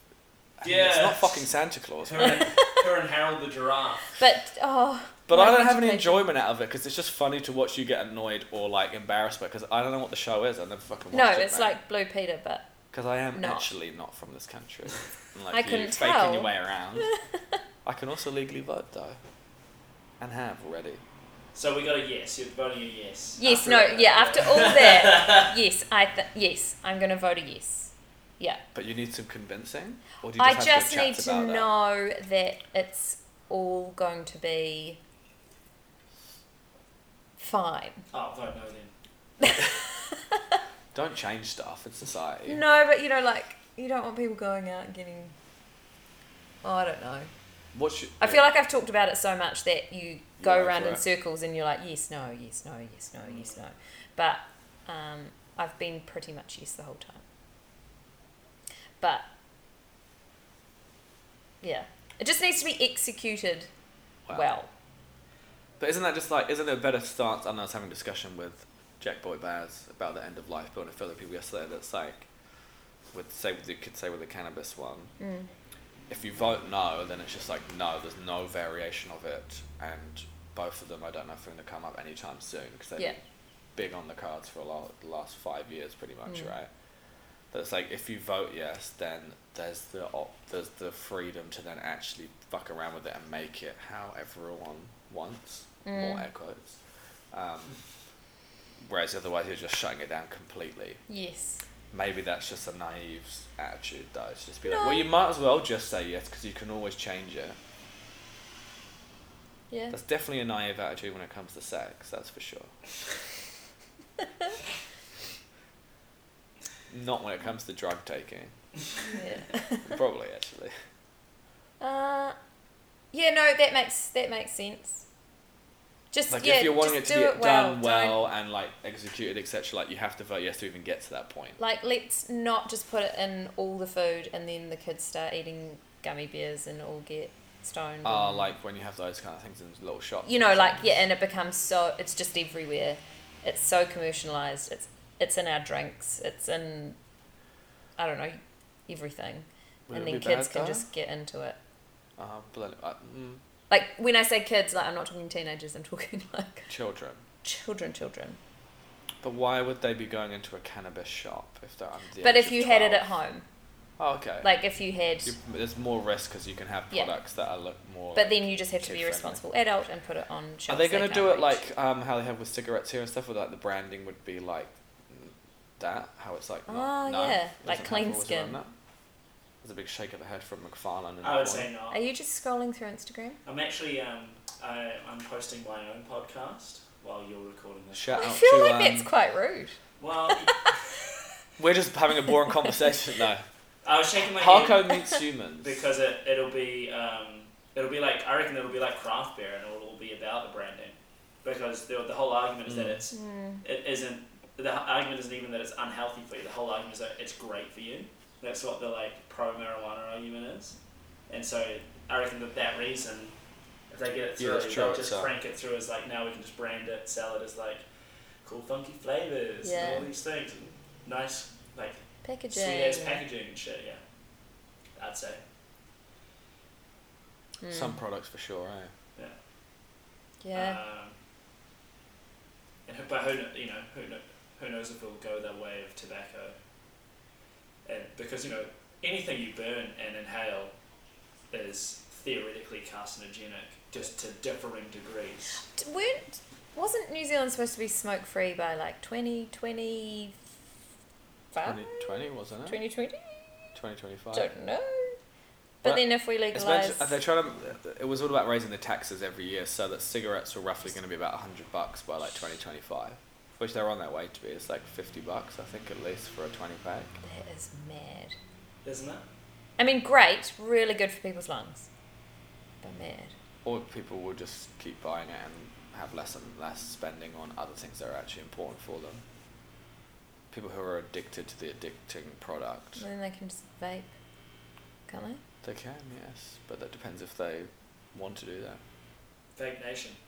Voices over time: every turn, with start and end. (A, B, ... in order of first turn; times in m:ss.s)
0:00.6-0:02.4 A
0:00.6-0:01.5 B
0:02.1-0:04.1 B
0:02.2-0:02.8 C
0:04.2-0:06.2 C
0:05.3-0:11.8 A
0:11.1-0:12.7 C
0:12.9-0:17.1 A
0:13.4-0:13.7 C
0:15.5-0:17.6 C
0:17.8-0:19.2 A
0:20.2-0:21.0 A
0:21.5-0:25.5 B
0:23.4-0:28.6 C
0:28.7-0:31.7 A
0:30.4-0:35.0 C
0:37.4-0:38.0 C
0:38.1-0:38.9 B
0:39.4-0:40.6 C
0:40.9-0:42.6 A
0:42.5-0:45.4 C
0:46.6-0:47.3 C
0:47.7-0:48.4 A
0:48.2-0:57.2 C
0:50.4-0:51.0 A
0:59.0-0:59.3 C
1:01.6-1:03.7 C
1:04.3-1:04.7 C
1:05.8-1:12.3 A
1:13.1-1:15.1 A
1:15.2-1:15.5 C
1:16.1-1:23.2 A
1:23.8-1:26.7 A
1:26.3-1:26.5 C
1:27.5-1:36.8 A
1:35.8-1:36.3 C
1:37.3-1:37.8 A
1:38.8-1:41.0 A
1:41.1-1:41.6 C
1:41.9-1:47.6 A
1:44.6-1:45.1 C
1:49.7-1:50.0 C
1:49.9-1:52.7 A
1:56.9-1:58.5 A
1:59.1-2:00.0 C
1:59.9-2:00.8 A
2:01.8-2:02.4 C
2:03.1-2:05.0 C
2:06.1-2:08.2 C
2:06.3-2:11.6 A
2:11.6-2:18.5 C
2:18.0-2:20.9 A
2:20.2-2:27.0 C
2:28.0-2:31.6 C
2:29.9-2:30.8 A
2:32.2-2:33.4 A
2:33.7-2:36.7 C
2:36.7-2:37.2 A
2:37.4-2:38.4 C
2:39.2-2:43.1 A
2:42.2-2:43.4 C
2:44.0-2:44.5 A
2:44.4-2:45.4 C
2:45.2-2:49.4 A
2:48.2-2:51.6 C
2:50.7-2:58.7 A
2:56.7-2:58.6 C
2:59.6-3:01.7 A
3:01.2-3:02.0 B
3:01.9-3:03.4 C
3:03.4-3:08.1 B
3:07.9-3:09.1 A
3:08.2-3:09.8 C
3:10.0-3:10.8 B
3:10.3-3:10.8 C
3:11.6-3:13.4 A
3:12.5-3:12.7 C
3:13.8-3:15.0 B
3:14.4-3:15.8 A
3:15.6-3:30.8 B
3:22.7-3:23.0 A
3:23.1-3:23.6 C
3:31.3-3:33.3 B
3:33.9-3:37.8 B
3:34.4-3:35.3 A
3:38.4-3:42.0 B
3:39.6-3:40.1 C
3:42.2-3:43.2 C
3:42.5-3:44.0 B
3:45.0-3:45.4 B
3:47.6-3:48.0 C
3:47.7-3:48.9 A
3:50.4-3:50.8 C
3:50.5-3:51.1 B
3:52.9-3:56.6 B
3:57.9-4:00.7 B
4:01.5-4:05.6 B
4:05.6-4:10.4 C
4:11.5-4:12.1 C
4:11.6-4:12.8 A
4:12.7-4:13.8 C
4:13.7-4:14.5 A
4:14.3-4:15.2 C
4:15.8-4:17.2 C
4:15.8-4:27.2 A
4:27.2-4:28.4 C
4:28.8-4:29.2 B
4:29.8-4:31.9 C
4:32.8-4:33.3 C
4:33.6-4:39.2 A
4:40.5-4:43.0 A
4:43.0-4:44.1 C
4:45.1-4:45.4 C
4:45.6-4:48.8 A
4:49.6-4:50.2 B